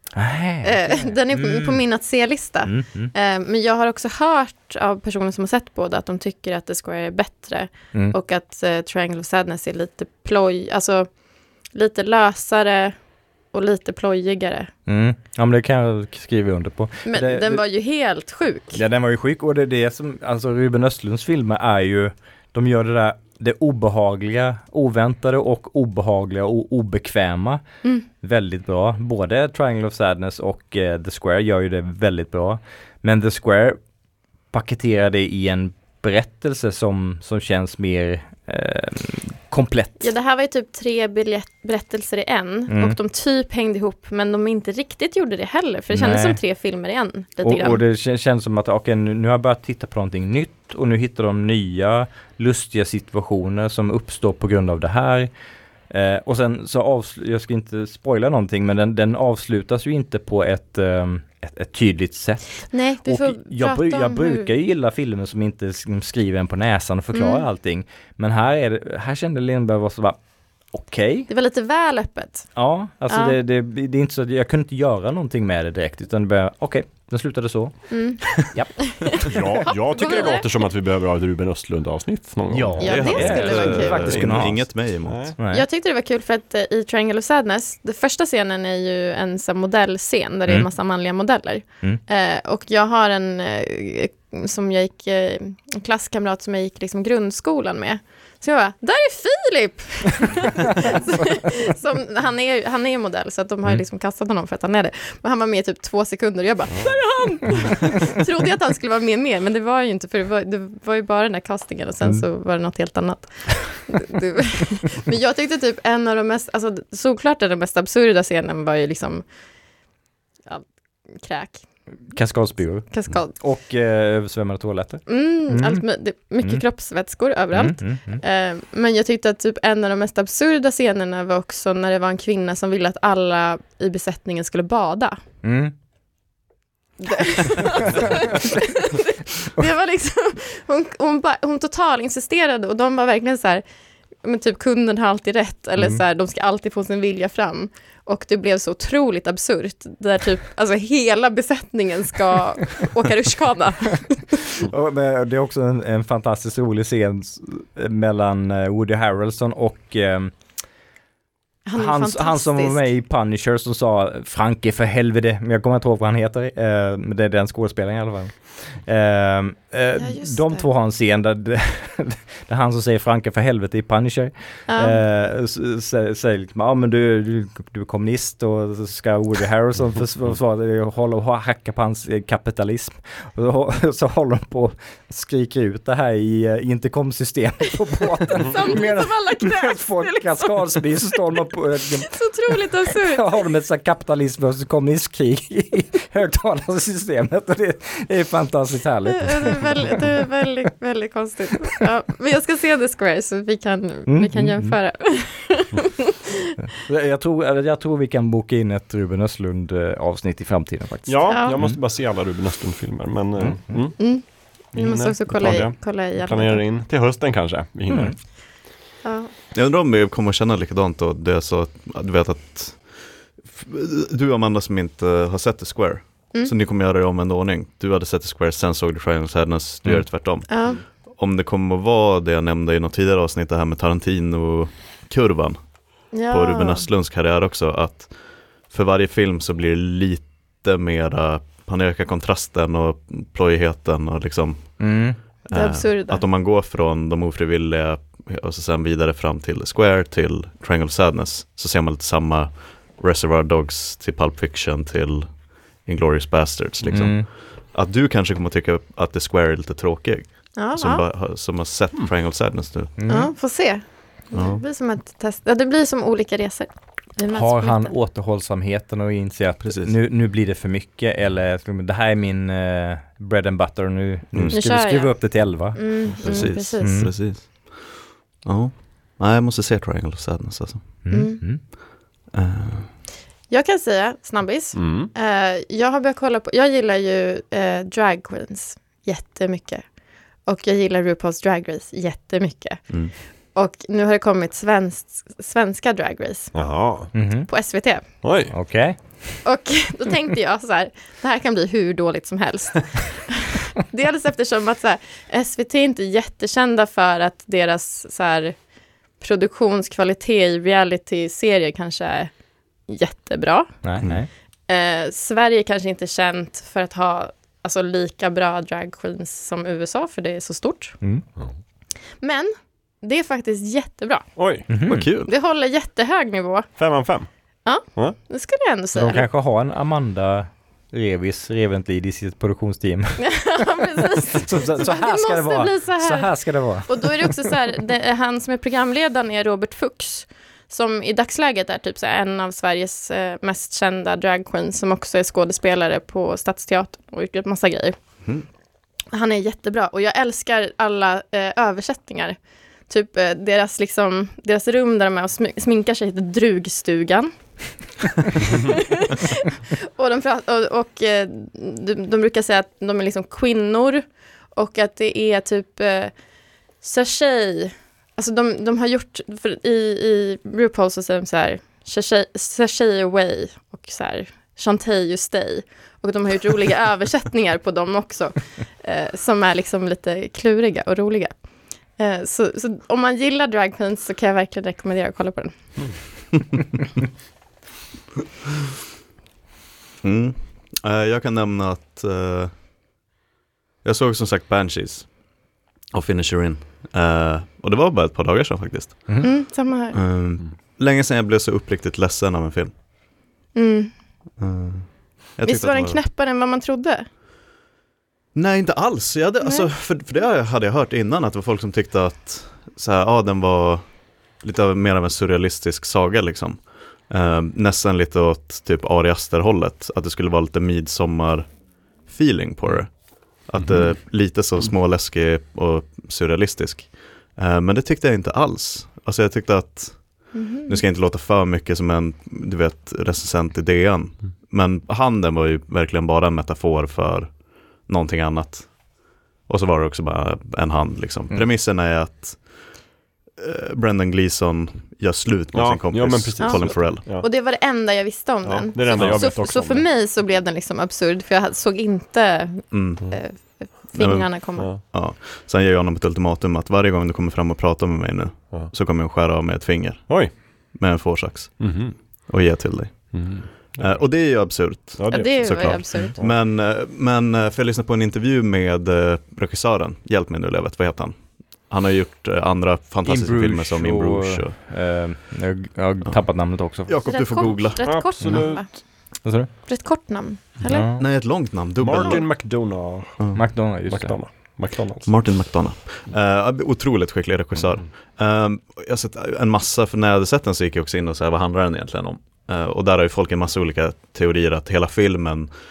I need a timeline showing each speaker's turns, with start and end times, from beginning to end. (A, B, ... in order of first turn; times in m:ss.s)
0:00.2-0:01.8 A
0:00.6-0:13.0 B
0:02.6-0:03.1 A
0:13.5-0:14.7 B
0:14.9-0:17.6 A
0:17.1-0:18.8 B
0:18.7-0:27.6 A
0:28.2-0:33.8 A
0:34.5-0:40.1 A
0:40.0-0:47.8 B
0:42.7-0:43.0 A
0:45.9-0:46.4 A
0:47.4-0:55.3 A
0:55.9-1:10.2 A
1:02.7-1:04.5 B
1:07.1-1:07.4 B
1:10.7-1:11.3 A
1:11.3-1:12.5 B
1:12.6-1:19.4 A
1:13.1-1:13.4 B
1:17.9-1:20.5 B
1:19.3-1:25.4 C
1:22.5-1:24.8 A
1:22.8-1:24.2 B
1:22.8-1:25.3 D
1:25.4-1:25.6 A
1:25.5-1:59.2 B
1:46.7-1:47.6 C
2:00.5-2:01.6 B
2:02.1-2:05.8 A
2:02.9-2:03.3 B
2:05.1-2:15.2 B
2:07.5-2:08.2 A
2:15.4-2:15.7 A
2:17.0-2:23.6 B
2:24.2-2:34.4 B
2:34.6-2:40.3 A
2:41.7-2:42.9 B
2:41.8-3:20.2 A
2:50.0-2:50.7 B
2:54.7-2:55.0 B
3:08.4-3:10.7 B
3:12.1-3:13.3 B
3:19.2-3:26.2 B
3:24.1-3:24.8 A
3:26.8-3:31.8 A
3:31.1-3:34.1 C
3:31.3-3:31.6 B
3:33.4-3:33.8 A
3:34.0-3:36.6 B
3:34.7-3:38.2 C
3:37.9-3:38.2 A
3:39.0-3:39.3 B
3:39.5-4:23.0 D
3:50.5-3:50.8 B
3:56.1-3:56.9 B
4:04.8-4:05.2 A
4:05.5-4:06.2 B
4:16.9-4:17.3 A
4:20.6-4:21.0 B
4:23.0-4:23.3 A
4:23.1-4:27.9 B
4:24.3-4:24.6 D
4:27.3-4:37.1 A
4:29.6-4:30.0 D
4:34.3-4:34.6 D
4:34.5-4:37.1 B
4:36.2-4:41.0 D
4:41.0-4:41.6 A
4:41.1-4:41.4 B
4:42.3-4:42.9 D
4:43.5-4:49.9 B
4:44.7-4:45.1 C
4:50.4-4:56.8 B
4:56.5-4:57.1 C
4:57.1-4:57.5 A
4:57.5-4:58.1 B
4:58.1-4:59.4 A
4:58.2-4:58.5 C
4:59.4-5:08.6 B
5:09.2-5:12.3 B
5:12.9-5:13.7 B
5:13.8-5:14.3 A
5:14.7-5:21.0 B
5:22.2-5:26.7 B
5:24.4-5:24.7 C
5:24.7-5:25.1 A
5:24.9-5:25.3 D
5:26.8-5:27.3 C
5:27.6-5:29.3 B
5:27.9-5:28.2 C
5:28.9-5:33.4 A
5:33.2-5:48.0 B
5:34.3-5:37.5 A
5:49.1-5:57.3 B
5:58.5-6:06.2 B
6:06.8-6:21.4 B
6:22.0-6:25.6 B
6:30.0-6:32.5 D
6:33.8-6:35.3 D
6:35.9-6:42.7 D
6:39.2-6:40.0 B
6:43.6-6:43.9 B
6:44.4-6:46.0 D
6:45.4-6:47.1 B
6:48.4-7:22.6 D
6:49.4-6:49.7 B
7:10.3-7:10.8 B
7:23.4-7:27.1 D
7:25.5-7:27.3 C
7:26.4-7:34.7 B
7:28.4-7:29.9 C
7:28.9-7:29.2 D
7:32.7-7:33.1 D
7:33.9-7:54.6 D
7:40.1-7:40.3 C
7:41.6-7:42.0 C
7:43.1-7:44.1 C
7:45.0-7:46.3 C
7:45.1-7:46.2 B
7:53.0-7:57.1 A
7:56.8-7:58.1 D
7:57.0-7:58.9 B
7:57.8-7:58.8 C
7:59.2-7:59.5 A
7:59.6-8:00.9 B
8:00.6-8:01.0 A
8:01.0-8:02.5 D
8:01.8-8:05.4 C
8:03.3-8:04.2 A
8:05.1-8:15.5 D